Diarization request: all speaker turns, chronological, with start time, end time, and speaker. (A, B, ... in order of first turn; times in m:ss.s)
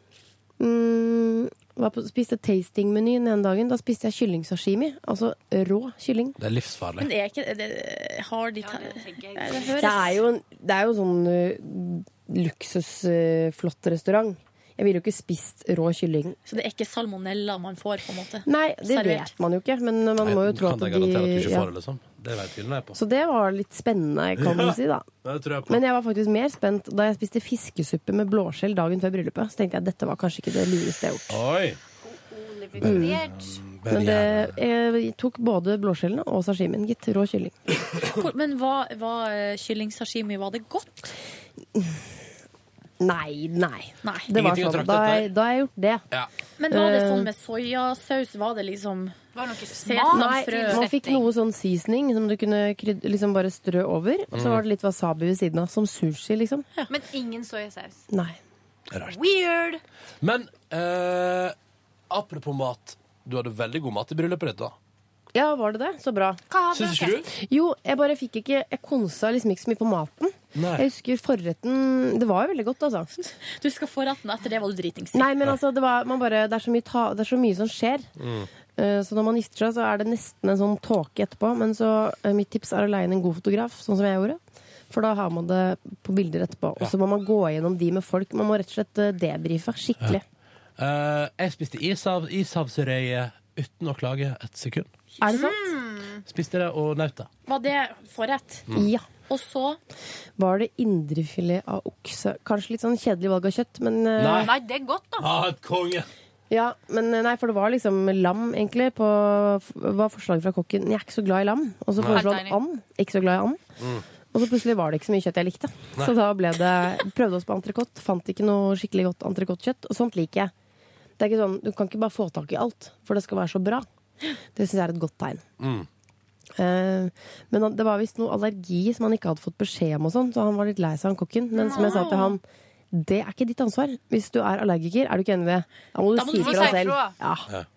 0:00.6-0:06.4 A
0:06.4-0:07.1 B
0:07.0-0:10.2 C
0:08.6-0:10.2 D
0:09.8-0:16.4 A
0:16.5-0:19.3 C
0:18.4-0:21.7 A
0:20.2-0:23.0 B
0:22.9-0:25.1 A
0:24.4-0:25.8 B
0:25.7-0:31.4 A
0:31.3-0:31.8 B
0:32.0-0:33.6 D
0:32.8-0:34.6 B
0:32.8-0:33.2 A
0:33.9-0:37.6 A
0:38.2-0:41.0 C
0:41.7-0:42.0 A
0:43.0-0:46.0 A
0:44.0-0:44.3 C
0:44.3-0:45.3 B
0:46.6-0:49.2 C
0:46.7-0:47.3 A
0:49.3-0:51.3 D
0:49.7-0:50.8 C
0:50.1-0:56.7 A
0:54.3-0:54.6 B
0:56.9-0:58.0 D
0:58.1-0:58.4 A
0:59.0-0:59.8 D
1:00.2-1:01.5 B
1:02.1-1:04.7 B
1:05.3-1:06.4 A
1:06.5-1:07.3 D
1:06.7-1:07.2 B
1:07.3-1:13.1 A
1:10.5-1:10.8 B
1:13.2-1:15.3 C
1:15.1-1:18.1 A
1:18.2-1:18.5 B
1:18.8-1:24.4 A
1:24.9-1:30.2 A
1:30.8-1:34.9 B
1:35.2-1:36.2 D
1:35.2-1:35.6 A
1:36.3-1:37.3 B
1:37.5-1:38.6 C
1:38.7-1:39.0 A
1:39.3-1:39.8 C
1:40.4-1:44.5 A
1:44.2-1:44.5 B
1:44.3-1:45.3 D
1:45.2-1:46.1 B
1:46.5-1:53.6 A
1:52.0-1:52.3 B
1:52.0-1:52.6 D
1:53.8-1:54.0 B
1:54.3-2:00.5 A
2:01.2-2:03.9 A
2:04.5-2:05.4 A
2:05.6-2:05.9 B
2:06.6-2:17.5 A
2:11.6-2:12.3 C
2:11.6-2:12.4 D
2:16.1-2:16.9 C
2:16.3-2:17.2 D